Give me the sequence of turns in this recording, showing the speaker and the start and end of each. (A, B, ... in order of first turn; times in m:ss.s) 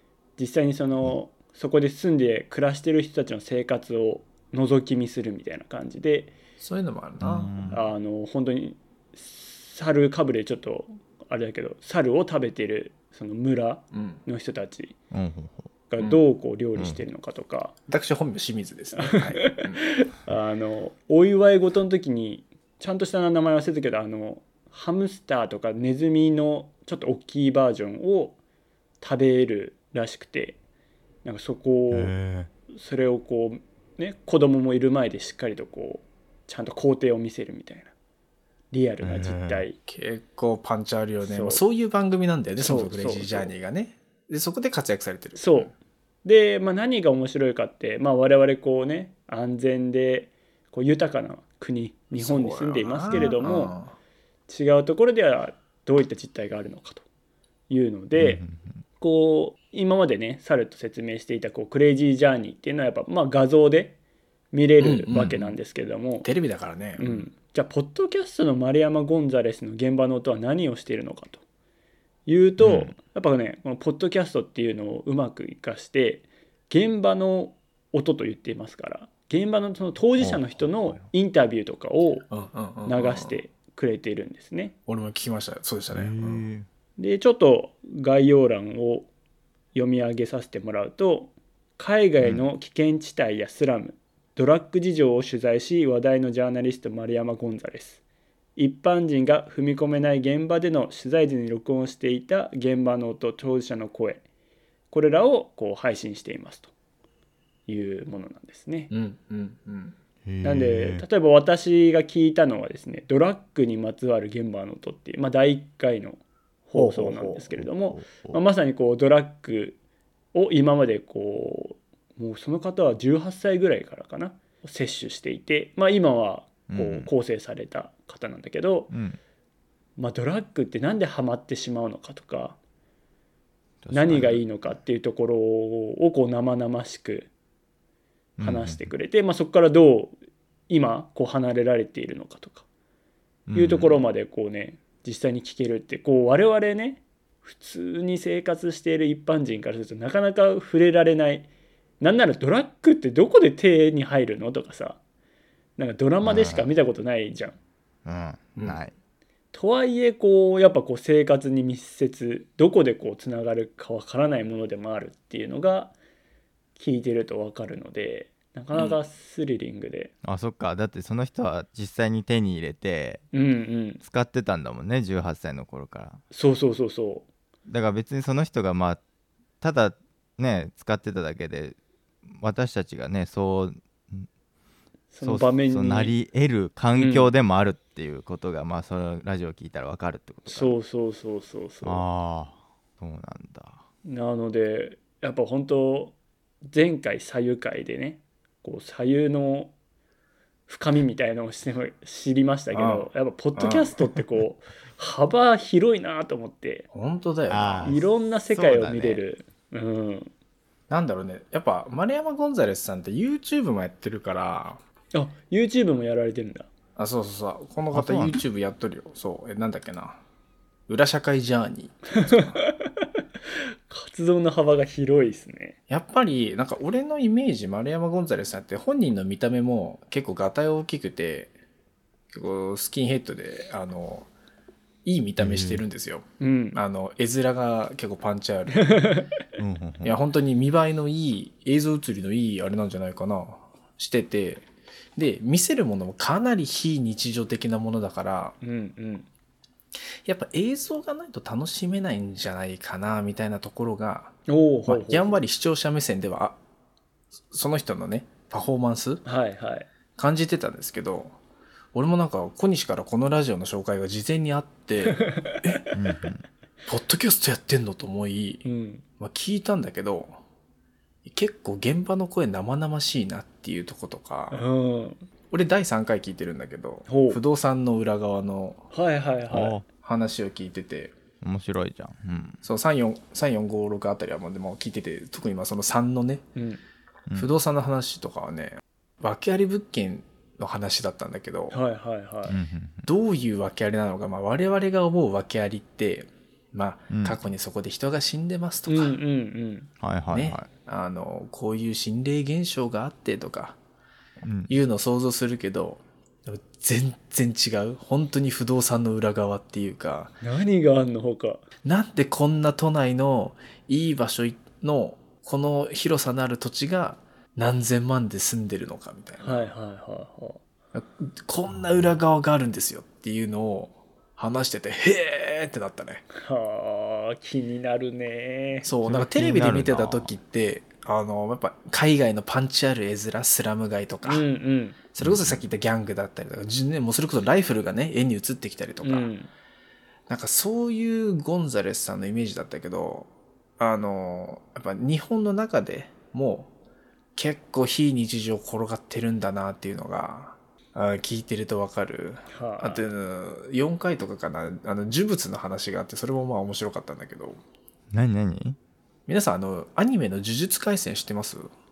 0:00.4-0:06.4 A
0:06.6-0:07.7 B
0:07.2-0:07.9 C
0:07.7-0:15.0 A
0:13.9-0:14.2 B
0:15.1-0:15.7 C
0:15.9-0:17.8 A
0:16.8-0:17.0 C
0:17.9-0:19.8 B
0:19.0-0:28.4 A
0:29.0-0:30.6 A
0:31.2-0:32.2 A
0:31.9-0:32.5 C
0:32.7-0:37.9 A
0:38.7-0:39.8 A
0:39.0-0:39.6 C
0:39.9-0:45.7 B
0:41.2-0:41.6 A
0:42.6-0:43.5 A
0:45.4-0:45.7 A
0:46.2-0:53.7 A
0:52.2-0:53.9 B
0:54.5-0:57.0 A
0:57.7-0:58.4 A
0:58.2-0:58.8 C
0:59.0-1:04.0 A
1:04.5-1:06.3 A
1:04.8-1:05.4 B
1:05.1-1:05.5 C
1:06.2-1:07.2 B
1:07.0-1:11.4 A
1:12.3-1:22.3 A
1:12.6-1:12.9 C
1:20.2-1:21.1 C
1:22.3-1:23.4 B
1:22.9-1:24.8 A
1:24.9-1:26.4 B
1:25.9-1:26.7 C
1:27.0-1:29.1 A
1:29.7-1:38.0 A
1:32.2-1:32.5 C
1:38.6-1:44.2 A
1:44.9-1:46.7 A
1:47.7-1:48.9 A
1:48.9-1:50.0 B
1:50.2-1:51.1 C
1:50.4-1:59.8 A
1:56.8-1:57.5 B
1:57.5-1:58.4 C
2:00.3-2:08.9 A
2:06.7-2:07.1 C
2:08.9-2:09.2 C
2:10.0-2:12.6 A
2:13.8-2:14.7 C
2:13.9-2:17.3 A
2:18.4-2:18.9 C
2:18.4-2:20.2 A
2:20.7-2:22.6 A
2:23.5-2:24.1 C
2:23.6-2:31.5 A
2:32.0-2:35.0 A
2:35.8-2:37.6 A
2:36.2-2:36.7 C
2:38.0-2:38.9 C
2:38.6-2:38.8 B
2:39.5-2:46.0 A
2:46.8-2:50.1 A
2:50.2-2:53.2 C
2:53.3-2:54.0 A
2:54.0-2:56.2 C
2:56.3-2:57.3 A
2:57.7-2:59.0 C
2:59.6-3:01.8 C
3:02.3-3:04.3 C
3:05.1-3:06.2 A
3:05.2-3:10.7 C
3:07.0-3:07.3 A
3:10.5-3:12.1 A
3:11.8-3:13.8 C
3:14.1-3:19.7 A
3:20.7-3:26.9 A
3:22.7-3:24.0 B
3:26.9-3:28.0 B
3:27.5-3:29.2 C
3:27.8-3:30.3 A
3:30.9-3:34.8 B
3:35.1-3:36.7 A
3:37.0-3:40.2 B
3:37.9-3:38.4 C
3:40.9-3:42.6 B
3:42.2-3:42.9 A
3:43.9-3:45.8 A
3:45.9-3:51.5 B
3:52.3-3:54.3 B
3:55.0-3:58.9 B
3:55.4-3:55.8 C
3:56.4-3:56.8 A
3:58.8-3:59.3 A
3:59.6-4:00.2 C
4:00.0-4:04.6 B
4:05.2-4:08.6 B
4:08.6-4:09.3 A
4:10.2-4:14.4 B
4:14.5-4:15.4 A
4:14.9-4:16.6 B
4:17.5-4:19.2 B
4:19.2-4:19.9 A
4:20.2-4:21.4 B
4:21.9-4:25.9 B
4:25.1-4:25.8 A
4:25.9-4:26.5 C
4:26.9-4:28.6 B
4:28.6-4:29.0 A
4:29.2-4:30.3 B
4:31.2-4:34.6 B
4:34.5-4:35.2 A
4:35.5-4:38.8 B
4:37.1-4:37.4 A
4:38.9-4:39.8 A
4:39.5-4:39.8 C
4:40.0-4:41.2 B
4:41.4-4:42.6 C
4:42.6-4:46.4 B
4:46.6-4:46.8 A
4:47.3-4:47.5 C
4:47.4-4:51.8 B
4:51.7-4:52.6 A
4:52.5-4:53.1 C
4:53.0-4:59.2 B
4:57.1-4:57.4 C
4:58.9-4:59.9 A
5:00.0-5:00.7 C
5:00.3-5:03.8 B
5:04.4-5:04.8 C
5:04.7-5:10.4 B
5:10.4-5:11.6 A
5:11.8-5:19.7 B
5:19.4-5:20.6 A
5:20.9-5:26.2 B
5:26.3-5:28.9 A
5:28.8-5:34.5 B
5:29.0-5:30.3 C
5:34.2-5:35.0 A
5:35.1-5:39.3 B
5:35.2-5:35.6 C
5:39.0-5:39.5 A
5:40.3-5:43.3 B
5:43.8-5:46.7 B
5:47.4-5:57.6 B
5:52.5-5:53.1 A
5:58.1-5:58.8 C
5:59.3-6:01.7 B